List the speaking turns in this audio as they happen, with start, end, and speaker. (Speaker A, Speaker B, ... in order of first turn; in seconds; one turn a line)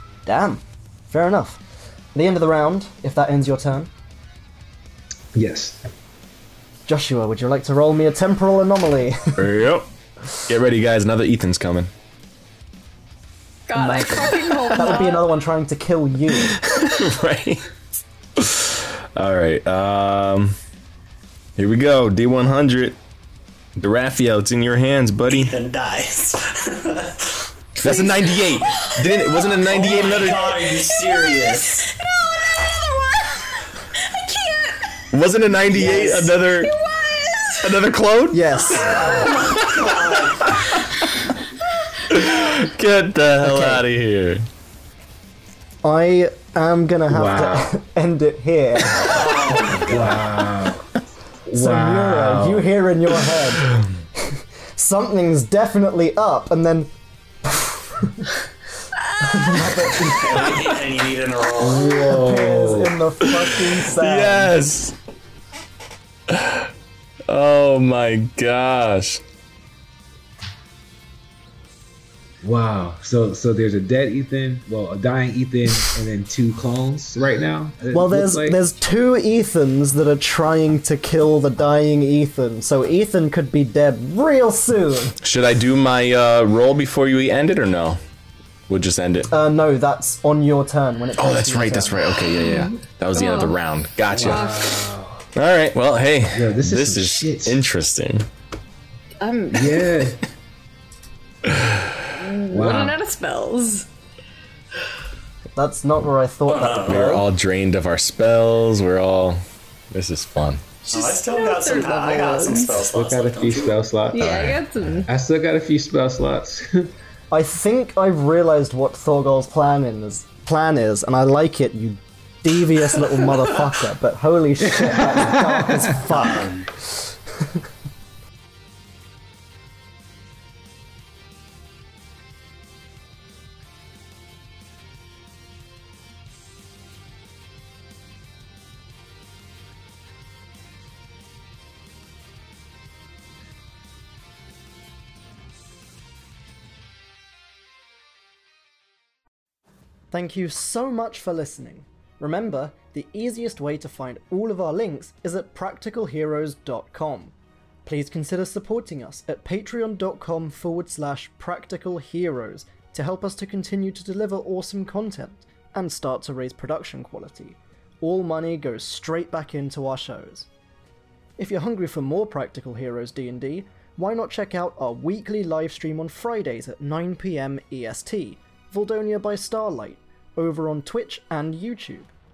Speaker A: 0.2-1.6
Speaker A: 2.1-3.9
Speaker B: 5.3-5.8
Speaker A: 6.9-9.4
Speaker C: 9.4-9.9
Speaker C: 10.4-11.9
Speaker D: 13.7-15.3
Speaker A: 13.7-16.6
Speaker C: 16.4-17.6
Speaker C: 18.4-20.6
Speaker C: 21.6-23.0
Speaker C: 23.8-25.5
Speaker E: 25.3-27.4
Speaker D: 27.8-29.4
Speaker C: 27.8-30.6
Speaker E: 29.6-31.9
Speaker D: 30.9-35.0
Speaker C: 35.1-36.7
Speaker A: 35.8-36.2
Speaker D: 35.9-37.7
Speaker C: 37.6-38.6
Speaker A: 38.3-39.1
Speaker E: 38.8-40.6
Speaker D: 38.8-39.7
Speaker B: 38.9-39.3
Speaker C: 42.1-44.5
Speaker A: 43.4-43.8
Speaker A: 45.8-49.6
Speaker B: 47.1-47.7
Speaker E: 49.0-50.2
Speaker B: 49.7-50.8
Speaker A: 51.5-53.7
Speaker B: 51.5-52.6
Speaker C: 51.6-52.6
Speaker A: 54.3-56.9
Speaker A: 57.4-58.3
Speaker D: 59.0-60.8
Speaker A: 59.2-60.6
Speaker E: 60.2-62.0
Speaker B: 61.6-63.0
Speaker D: 61.7-62.0
Speaker A: 62.0-64.6
Speaker C: 63.8-65.0
Speaker C: 66.3-66.7
Speaker C: 67.3-69.2
Speaker B: 72.4-78.6
Speaker A: 77.9-85.1
Speaker C: 85.2-88.0
Speaker C: 88.7-89.3
Speaker A: 89.3-92.0
Speaker C: 91.2-94.5
Speaker D: 92.4-93.5
Speaker B: 94.1-95.2
Speaker D: 94.1-94.9
Speaker C: 95.3-98.3
Speaker B: 96.3-97.6
Speaker D: 99.2-100.0
Speaker B: 99.5-100.2
Speaker C: 101.4-102.0
Speaker D: 102.1-103.9
Speaker B: 102.5-103.0
Speaker A: 105.5-107.2
Speaker E: 106.5-107.0
Speaker C: 106.8-110.7
Speaker D: 110.8-112.9
Speaker E: 110.9-113.8
Speaker B: 112.9-116.9
Speaker D: 114.1-115.1
Speaker C: 114.2-114.6
Speaker A: 117.3-126.5
Speaker B: 124.7-126.0
Speaker E: 126.1-126.7
Speaker A: 150.1-157.3
Speaker A: 157.8-170.5
Speaker A: 171.4-182.1